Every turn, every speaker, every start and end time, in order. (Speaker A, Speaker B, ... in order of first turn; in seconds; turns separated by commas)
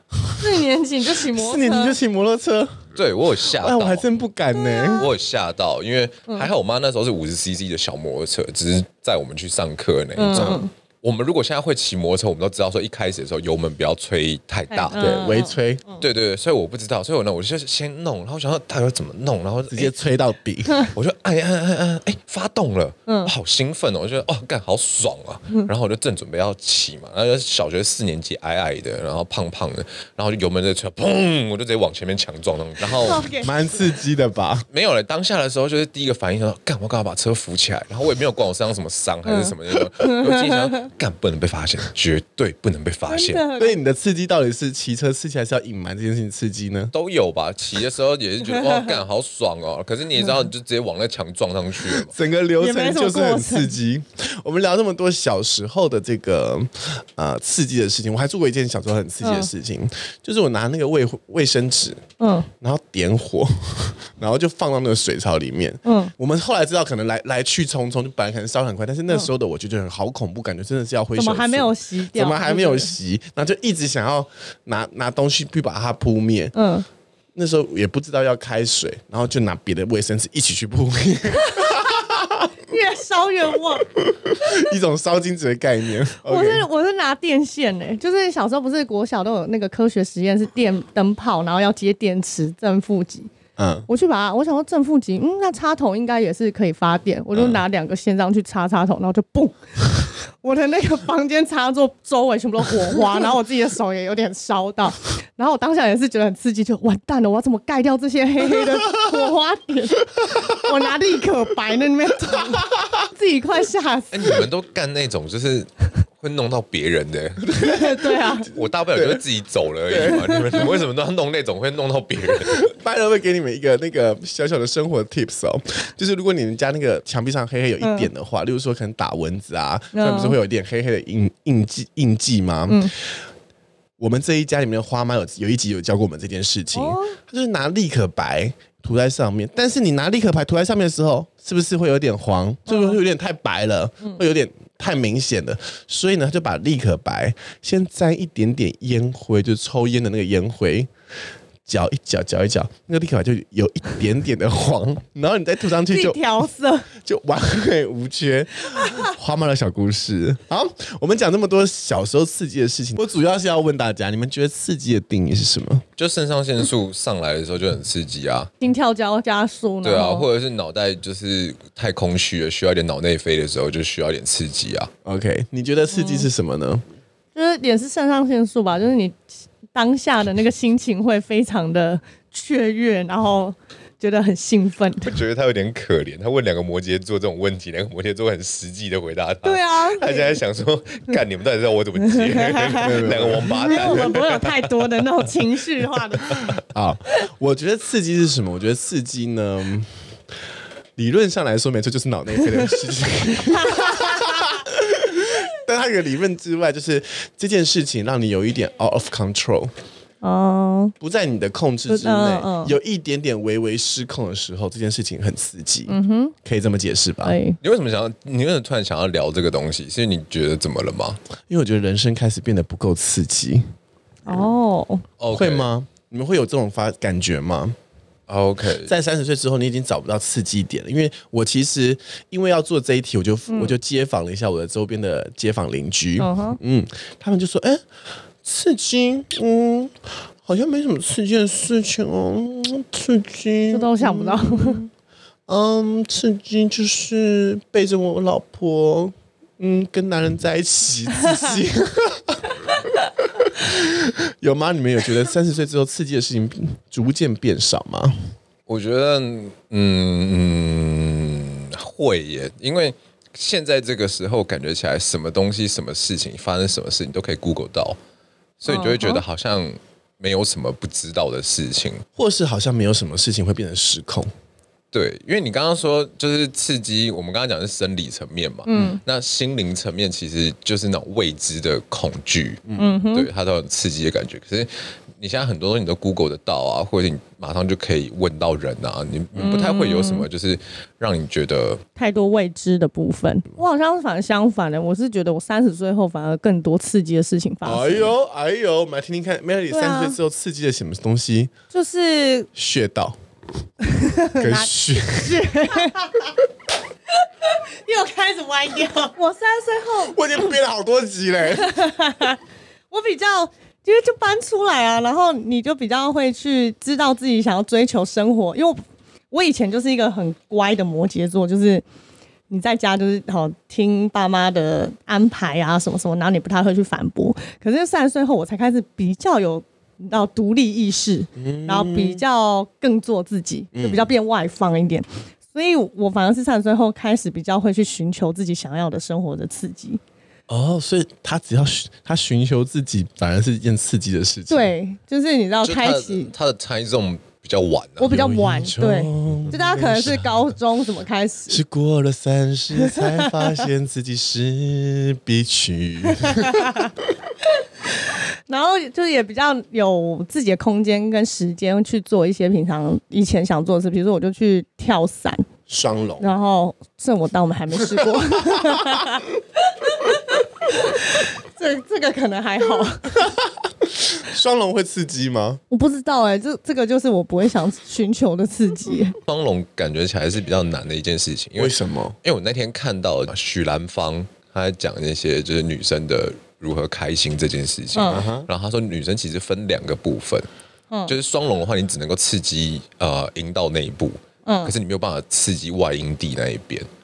Speaker A: 0.4-1.9, Speaker B: 1.3-2.9, Speaker C: 3.0-4.0, Speaker B: 3.4-5.1, Speaker A: 4.5-5.1, Speaker C: 4.9-15.3, Speaker A: 10.2-10.7, Speaker B: 10.3-10.6, Speaker A: 14.7-16.0, Speaker B: 15.0-15.8, Speaker C: 16.0-19.9, Speaker B: 19.7-20.9, Speaker C: 20.9-33.3, Speaker A: 23.1-23.3, Speaker A: 32.9-33.8, Speaker B: 33.4-34.6, Speaker C: 34.7-43.4, Speaker A: 39.2-40.9, Speaker A: 43.1-43.8, Speaker B: 43.6-46.9, Speaker C: 46.9-52.1, Speaker A: 48.5-48.9, Speaker B: 51.8-62.0, Speaker A: 52.6-53.7, Speaker A: 59.2-59.5, Speaker A: 62.2-62.5, Speaker B: 62.6-76.5, Speaker A: 65.8-66.1, Speaker A: 71.2-72.9, Speaker A: 76.5-76.8, Speaker B: 77.3-82.5, Speaker A: 81.5-81.8, Speaker A: 82.7-83.8, Speaker B: 84.1-86.7, Speaker A: 86.2-93.3, Speaker B: 93.6-93.9, Speaker A: 93.9-114.4, Speaker B: 108.6-109.1, Speaker B: 112.3-113.0, Speaker C: 114.1-117.5, Speaker B: 117.4-118.3, Speaker A: 117.6-118.5, Speaker C: 118.5-122.7, Speaker B: 118.9-119.2, Speaker B: 119.9-120.8, Speaker A: 120.1-120.6, Speaker B: 122.3-133.1, Speaker A: 127.8-128.1, Speaker A: 129.9-130.4, Speaker A: 132.7-132.9, Speaker B: 134.0-150.9, Speaker A: 136.7-137.2, Speaker A: 142.7-143.0, Speaker B: 151.7-156.2, Speaker A: 155.9-156.9, Speaker B: 156.9-165.8, Speaker A: 158.7-159.1, Speaker C: 166.0-168.5, Speaker A: 168.6-170.3, Speaker C: 169.8-174.9, Speaker B: 175.0-176.8, Speaker A: 175.9-176.3, Speaker A: 177.3-179.2, Speaker A: 179.7-185.1, Speaker C: 185.0-195.1, Speaker A: 189.4-190.4, Speaker A: 192.0-196.5, Speaker B: 192.7-194.1, Speaker C: 196.2-196.5, Speaker B: 196.7-199.9, Speaker B: 200.9-209.7, Speaker A: 203.4-204.5, Speaker A: 210.2-210.9, Speaker B: 211.0-217.3, Speaker A: 211.9-212.7, Speaker A: 215.9-216.3, Speaker A: 217.2-217.6, Speaker C: 217.6-221.2, Speaker B: 221.5-223.7, Speaker A: 224.2-225.0, Speaker C: 225.2-225.7, Speaker B: 225.3-227.8, Speaker C: 228.3-228.9, Speaker B: 228.8-237.8, Speaker A: 233.5-233.7, Speaker A: 236.2-236.6, Speaker B: 238.4-244.8, Speaker A: 243.7-244.8, Speaker B: 245.5-252.5, Speaker B: 253.4-258.1, Speaker C: 258.7-268.0, Speaker C: 268.6-272.0, Speaker A: 268.7-269.2, Speaker B: 272.1-274.3, Speaker C: 274.9-291.8, Speaker A: 278.7-279.0, Speaker B: 282.7-282.9, Speaker A: 282.8-283.3, Speaker A: 289.4-290.2, Speaker A: 291.9-298.1, Speaker B: 297.6-301.5, Speaker A: 299.7-300.1, Speaker A: 301.7-302.5, Speaker B: 302.5-303.2, Speaker A: 303.8-306.3, Speaker B: 304.4-305.9, Speaker A: 307.4-310.2, Speaker B: 310.1-311.8, Speaker A: 311.5-312.4, Speaker A: 312.9-321.8, Speaker A: 322.5-340.0, Speaker B: 331.4-332.2, Speaker B: 333.7-334.1, Speaker B: 340.5-344.7, Speaker A: 344.5-346.3, Speaker C: 345.6-348.1, Speaker A: 348.0-351.6, Speaker B: 348.1-350.4, Speaker B: 351.5-356.9, Speaker A: 352.8-353.6, Speaker A: 356.2-356.9, Speaker A: 357.9-365.4, Speaker B: 365.7-366.3, Speaker A: 366.2-373.2, Speaker B: 368.0-368.9, Speaker B: 373.2-375.6, Speaker A: 375.7-379.2, Speaker C: 379.3-390.5, Speaker B: 381.6-382.2, Speaker A: 387.9-388.2, Speaker B: 388.1-388.5, Speaker C: 391.1-396.9, Speaker A: 394.4-394.7